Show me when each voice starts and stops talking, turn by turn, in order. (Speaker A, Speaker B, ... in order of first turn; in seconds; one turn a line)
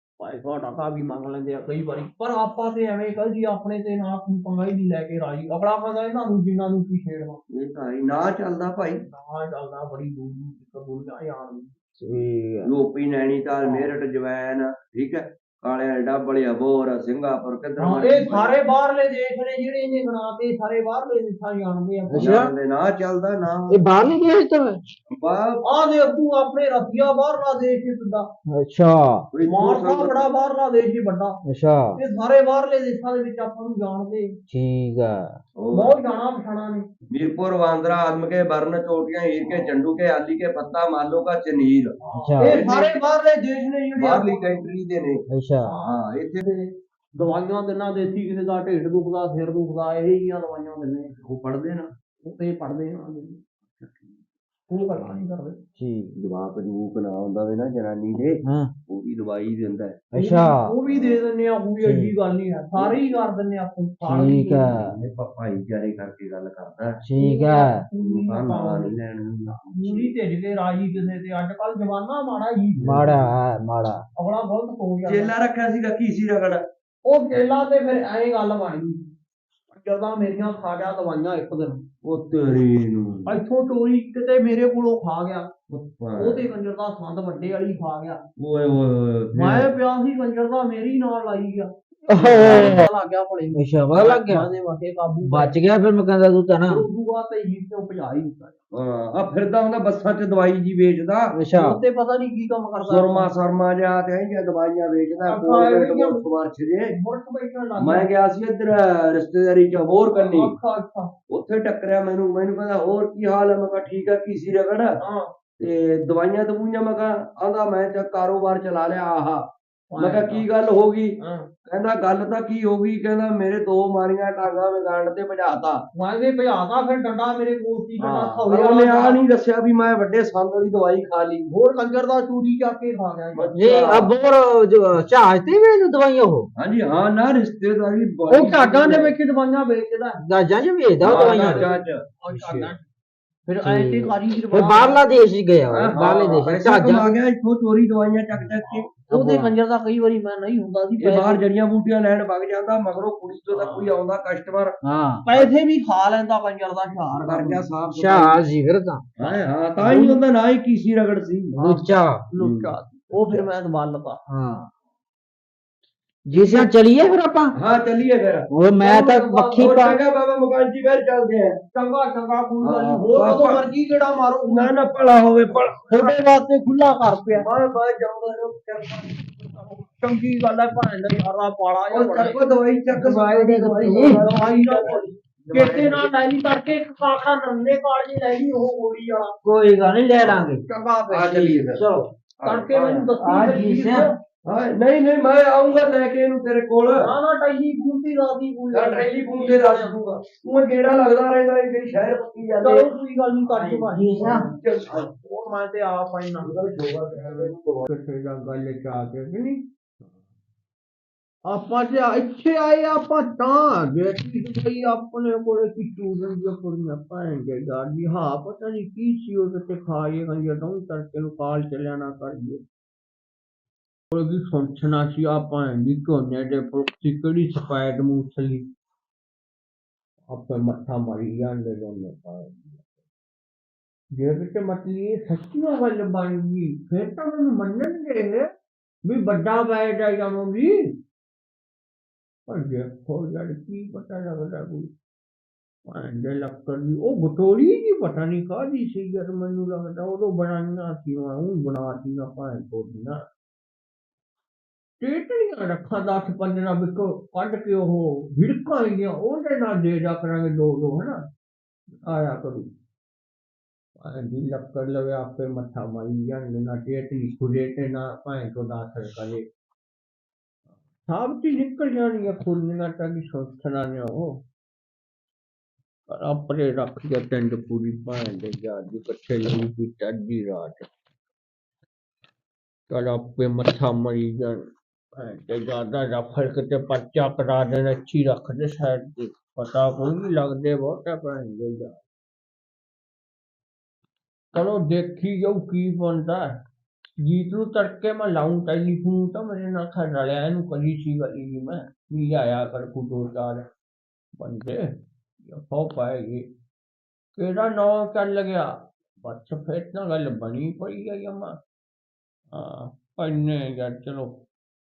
Speaker A: 0.2-7.4
Speaker B: 7.5-9.0
Speaker A: 9.1-11.7
Speaker C: 12.0-12.7
Speaker B: 12.7-18.5
Speaker A: 13.6-13.9
Speaker A: 17.8-22.3
Speaker C: 22.1-22.5
Speaker B: 22.2-23.8
Speaker C: 23.7-24.8
Speaker B: 25.1-25.6
Speaker A: 25.6-28.3
Speaker C: 28.5-29.3
Speaker B: 29.3-30.3
Speaker A: 29.4-31.4
Speaker C: 31.5-32.0
Speaker A: 32.0-34.4
Speaker C: 34.5-35.4
Speaker B: 35.6-36.0
Speaker A: 35.7-36.9
Speaker B: 37.1-42.9
Speaker A: 39.5-39.7
Speaker A: 42.0-44.7
Speaker C: 42.1-42.6
Speaker B: 44.0-45.2
Speaker C: 45.3-45.7
Speaker A: 45.6-51.1
Speaker B: 45.8-46.4
Speaker B: 51.2-51.9
Speaker A: 52.2-53.4
Speaker B: 53.8-54.1
Speaker A: 54.7-55.6
Speaker C: 55.8-56.2
Speaker B: 56.1-60.1
Speaker C: 58.4-58.7
Speaker C: 60.1-60.7
Speaker A: 60.1-64.7
Speaker B: 60.9-61.3
Speaker C: 61.8-62.1
Speaker B: 62.8-63.1
Speaker C: 64.0-64.9
Speaker B: 64.7-67.0
Speaker C: 67.0-67.9
Speaker A: 67.2-69.0
Speaker B: 68.0-70.1
Speaker A: 69.5-73.2
Speaker C: 72.8-74.0
Speaker A: 74.2-75.3
Speaker B: 75.1-76.6
Speaker A: 77.0-79.0
Speaker A: 79.7-81.8
Speaker B: 82.0-83.4
Speaker A: 83.3-85.5
Speaker B: 85.7-86.4
Speaker A: 86.2-88.2
Speaker B: 88.4-89.7
Speaker A: 89.3-95.5
Speaker C: 92.1-92.9
Speaker C: 93.5-94.5
Speaker C: 95.3-96.8
Speaker A: 96.7-98.6
Speaker B: 98.7-101.4
Speaker C: 101.3-101.8
Speaker A: 101.5-103.3
Speaker B: 102.8-107.0
Speaker A: 105.2-106.2
Speaker A: 106.9-108.1
Speaker B: 107.8-110.5
Speaker A: 110.1-111.1
Speaker B: 111.3-115.0
Speaker A: 115.0-115.3
Speaker B: 115.6-119.5
Speaker A: 119.9-120.5
Speaker B: 120.0-121.2
Speaker A: 121.2-121.5
Speaker B: 121.7-125.8
Speaker A: 126.0-129.2
Speaker B: 128.0-131.5
Speaker A: 131.5-133.9
Speaker B: 133.3-134.1
Speaker C: 133.6-136.5
Speaker B: 136.6-139.1
Speaker A: 138.3-140.2
Speaker C: 140.2-141.7
Speaker B: 141.0-142.7
Speaker A: 141.1-142.8
Speaker A: 143.5-145.0
Speaker C: 143.6-147.2
Speaker B: 145.7-148.9
Speaker A: 148.7-151.4
Speaker C: 149.1-149.5
Speaker B: 151.0-154.8
Speaker A: 153.5-153.9
Speaker C: 154.8-155.2
Speaker A: 155.3-157.6
Speaker B: 157.1-158.4
Speaker C: 157.9-159.0
Speaker B: 159.2-161.6
Speaker A: 159.8-160.2
Speaker A: 161.6-164.2
Speaker C: 161.6-162.2
Speaker B: 162.4-162.7
Speaker C: 164.3-164.7
Speaker C: 166.3-167.5
Speaker A: 166.4-166.7
Speaker B: 167.6-168.5
Speaker C: 168.5-170.0
Speaker A: 168.8-169.8
Speaker B: 169.6-171.6
Speaker A: 171.7-174.8
Speaker B: 172.6-173.7
Speaker B: 174.5-176.2
Speaker A: 175.9-177.5
Speaker B: 177.3-179.6
Speaker A: 179.6-182.4
Speaker B: 181.9-186.1
Speaker C: 182.9-184.2
Speaker A: 183.8-189.3
Speaker C: 189.4-190.6
Speaker B: 190.2-190.5
Speaker A: 190.7-191.6
Speaker B: 191.1-193.2
Speaker C: 191.6-192.1
Speaker A: 192.4-194.2
Speaker C: 193.2-194.1
Speaker B: 194.5-197.1
Speaker A: 197.0-200.0
Speaker B: 198.7-202.9
Speaker A: 202.6-206.5
Speaker C: 203.5-204.4
Speaker B: 204.2-205.1
Speaker B: 206.4-207.9
Speaker A: 207.1-209.7
Speaker A: 211.5-222.6
Speaker A: 224.1-228.7
Speaker A: 230.3-232.8
Speaker A: 234.1-238.5
Speaker A: 239.1-240.9
Speaker A: 242.5-244.9
Speaker A: 245.9-253.2
Speaker A: 255.0-261.3
Speaker A: 262.1-262.7
Speaker A: 264.0-269.5
Speaker A: 271.1-274.4
Speaker A: 276.1-280.9
Speaker A: 282.9-292.0
Speaker A: 294.5-296.6
Speaker A: 297.2-303.7
Speaker A: 304.4-306.5
Speaker A: 307.4-311.6
Speaker A: 312.5-314.4